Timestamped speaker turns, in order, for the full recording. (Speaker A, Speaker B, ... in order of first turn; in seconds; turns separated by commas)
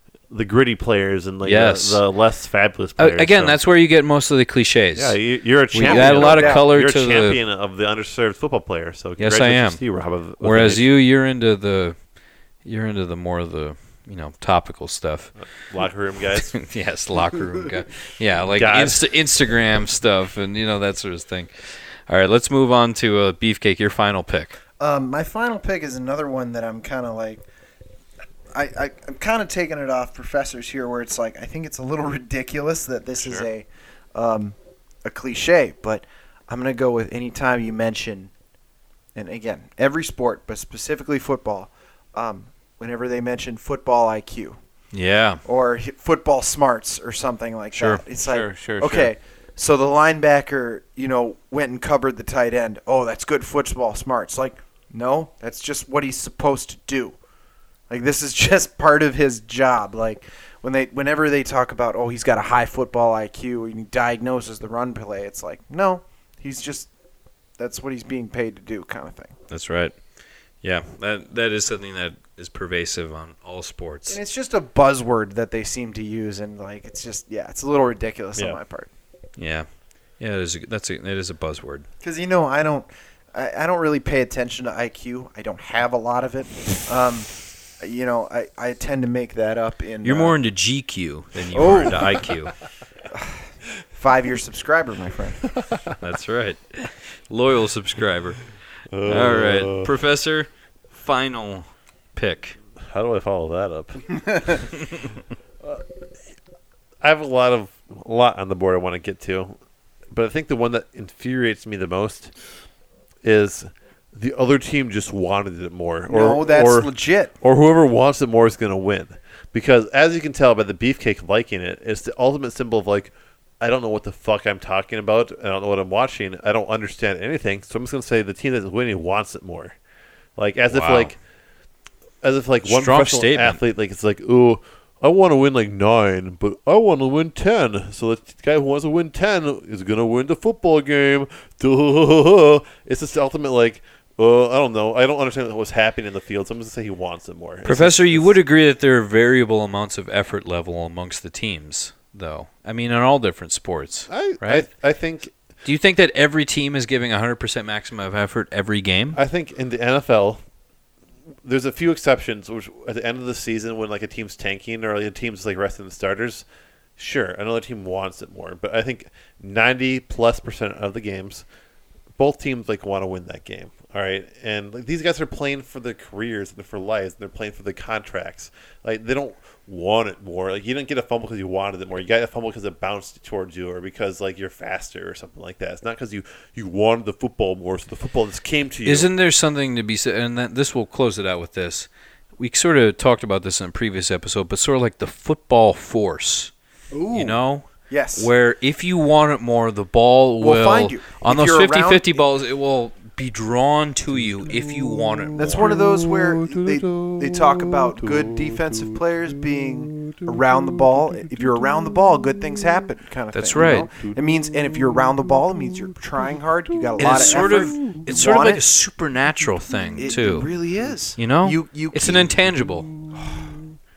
Speaker A: 0.3-3.6, Speaker B: 1.4-2.0, Speaker B: 3.0-5.2, Speaker A: 5.0-10.9, Speaker B: 5.7-7.4, Speaker C: 5.8-6.7, Speaker B: 9.2-9.8, Speaker B: 10.4-11.9, Speaker B: 12.6-15.3, Speaker A: 15.4-16.6, Speaker B: 16.4-24.6, Speaker A: 18.5-19.0, Speaker C: 24.8-27.4, Speaker C: 28.5-38.3, Speaker A: 33.2-33.5, Speaker C: 39.1-44.6, Speaker B: 44.9-45.4, Speaker C: 45.4-57.2, Speaker B: 47.7-48.0, Speaker A: 48.2-49.1, Speaker C: 57.9-66.9, Speaker C: 67.6-69.3, Speaker B: 69.5-70.0, Speaker B: 70.6-74.2, Speaker C: 74.1-78.9, Speaker B: 79.4-79.7, Speaker B: 80.2-81.8, Speaker C: 82.0-90.3, Speaker B: 90.0-92.5, Speaker C: 91.5-92.3, Speaker C: 93.1-95.5, Speaker A: 95.5-95.9, Speaker B: 96.0-98.4, Speaker A: 98.9-99.9, Speaker B: 99.0-102.5, Speaker A: 102.8-104.7, Speaker A: 107.0-109.6, Speaker A: 110.1-112.3, Speaker A: 113.2-116.9, Speaker C: 116.1-117.3, Speaker A: 117.4-129.8, Speaker A: 130.4-131.1, Speaker B: 130.7-131.2, Speaker A: 132.2-148.3, Speaker B: 132.6-133.6, Speaker B: 147.6-154.7, Speaker A: 154.1-155.3, Speaker B: 155.6-159.2, Speaker A: 159.1-160.4, Speaker A: 161.4-166.4, Speaker A: 167.0-171.4, Speaker A: 172.2-189.1, Speaker B: 188.8-196.5, Speaker C: 196.9-198.3, Speaker B: 197.1-205.8, Speaker C: 200.4-202.2, Speaker A: 204.4-211.7, Speaker C: 205.3-218.6, Speaker B: 213.3-213.9, Speaker B: 217.0-220.5, Speaker C: 219.9-222.3, Speaker B: 221.2-222.9, Speaker C: 223.1-223.6